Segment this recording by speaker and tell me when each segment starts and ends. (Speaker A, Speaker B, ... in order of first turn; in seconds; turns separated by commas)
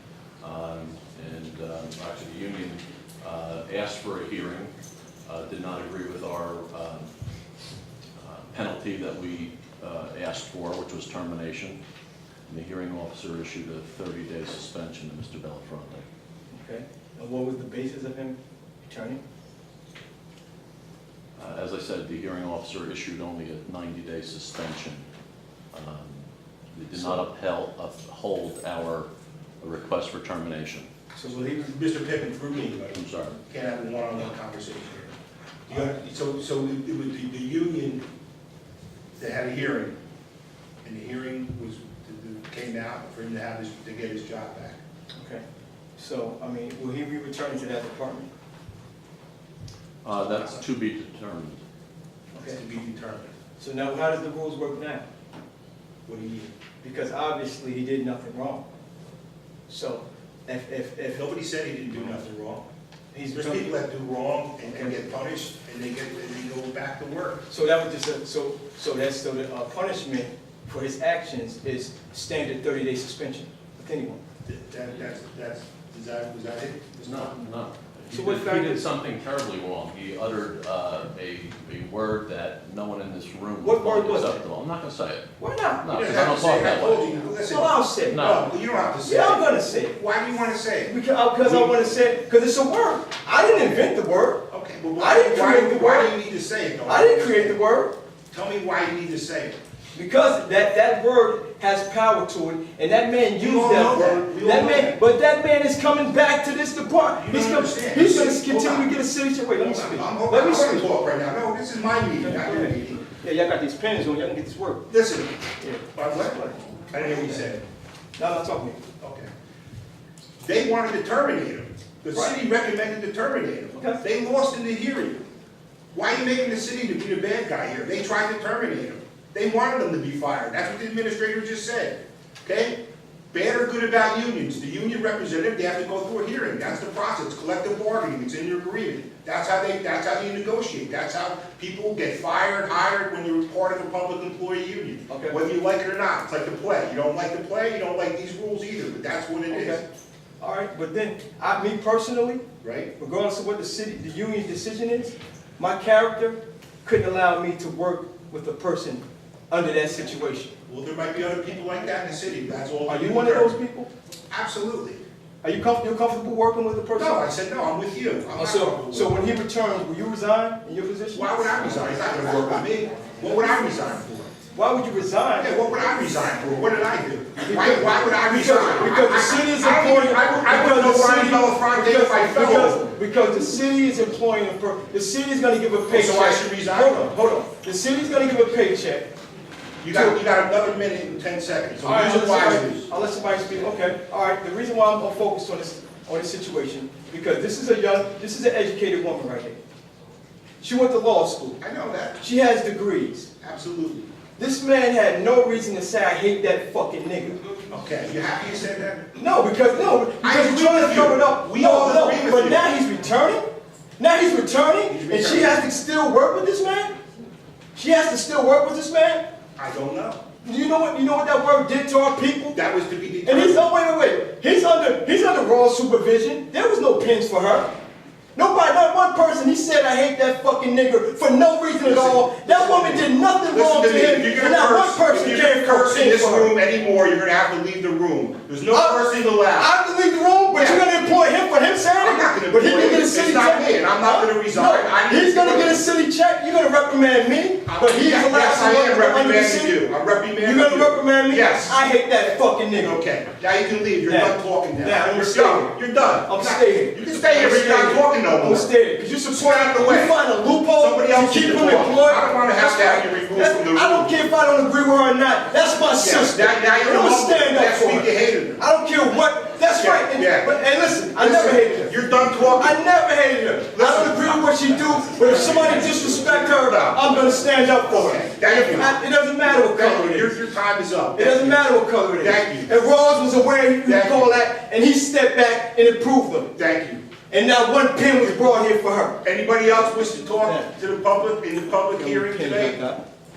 Speaker A: 0.4-4.7, Speaker A: 5.3-7.1, Speaker A: 8.2-11.8, Speaker A: 12.5-16.0, Speaker B: 16.5-19.2, Speaker A: 21.4-25.1, Speaker A: 25.7-29.1, Speaker B: 27.0-27.2, Speaker A: 29.6-30.9, Speaker B: 31.1-31.7, Speaker C: 31.3-35.1, Speaker A: 32.9-33.4, Speaker C: 35.7-38.0, Speaker C: 39.2-40.0, Speaker C: 40.8-44.8, Speaker B: 45.2-45.4, Speaker B: 46.0-48.3, Speaker A: 50.0-51.6, Speaker C: 50.3-50.6, Speaker B: 52.3-52.6, Speaker C: 52.4-53.3, Speaker B: 53.6-55.0, Speaker C: 56.1-56.5, Speaker B: 56.8-58.6, Speaker B: 59.7-61.2, Speaker C: 61.1-62.6, Speaker B: 63.1-63.7, Speaker C: 63.3-67.5, Speaker B: 64.6-65.0, Speaker B: 67.5-74.2, Speaker C: 74.5-77.4, Speaker A: 77.0-85.3, Speaker B: 78.1-78.8, Speaker B: 83.6-84.4, Speaker B: 85.4-86.0, Speaker A: 85.8-87.3, Speaker C: 85.9-92.0, Speaker B: 87.4-88.3, Speaker A: 88.1-88.5, Speaker B: 89.0-90.0, Speaker B: 90.8-94.4, Speaker C: 93.3-93.9, Speaker C: 94.5-97.6, Speaker B: 95.0-96.1, Speaker B: 96.9-97.9, Speaker C: 98.3-99.6, Speaker B: 99.9-110.9, Speaker C: 103.4-105.0, Speaker C: 107.1-108.9, Speaker C: 109.6-113.1, Speaker B: 112.2-114.8, Speaker C: 114.9-115.3, Speaker B: 115.6-117.5, Speaker C: 115.9-117.7, Speaker B: 118.2-118.8, Speaker C: 119.0-119.3, Speaker C: 120.4-125.2, Speaker B: 123.8-124.0, Speaker C: 125.9-132.8, Speaker C: 133.3-149.8, Speaker B: 145.1-145.4, Speaker B: 149.5-149.8, Speaker B: 150.4-152.4, Speaker C: 152.6-152.9, Speaker B: 153.0-160.6, Speaker C: 160.7-163.6, Speaker B: 162.9-163.9, Speaker C: 164.3-165.0, Speaker B: 165.4-167.3, Speaker C: 166.9-169.1, Speaker B: 168.4-171.3, Speaker C: 171.1-174.3, Speaker B: 174.5-175.6, Speaker C: 175.4-182.9, Speaker B: 177.4-189.1, Speaker C: 185.9-187.1, Speaker C: 189.8-192.9, Speaker B: 189.9-190.2, Speaker B: 191.8-199.6, Speaker B: 200.6-201.6, Speaker C: 201.6-202.2, Speaker B: 202.2-203.3, Speaker C: 203.4-204.1, Speaker B: 204.4-207.4, Speaker C: 207.7-209.1, Speaker B: 209.1-213.5, Speaker C: 210.2-212.7, Speaker B: 214.0-216.9, Speaker C: 214.9-215.7, Speaker B: 217.8-219.2, Speaker C: 219.6-220.2, Speaker B: 220.4-222.6, Speaker C: 222.5-223.7, Speaker B: 223.2-227.7, Speaker B: 228.3-236.5, Speaker C: 231.8-239.7, Speaker B: 238.7-249.8, Speaker C: 240.6-240.8, Speaker C: 242.0-245.8, Speaker C: 247.7-251.8, Speaker B: 250.4-253.0, Speaker C: 252.8-258.7, Speaker B: 254.1-280.3, Speaker C: 259.3-260.2, Speaker C: 260.8-264.3, Speaker C: 266.0-268.6, Speaker C: 269.8-270.6, Speaker C: 271.2-272.8, Speaker C: 273.7-274.6, Speaker C: 275.2-282.7, Speaker B: 281.1-286.5, Speaker C: 283.8-284.4, Speaker C: 286.6-287.0, Speaker B: 287.3-289.2, Speaker C: 289.2-292.8, Speaker B: 290.4-290.7, Speaker B: 292.0-293.0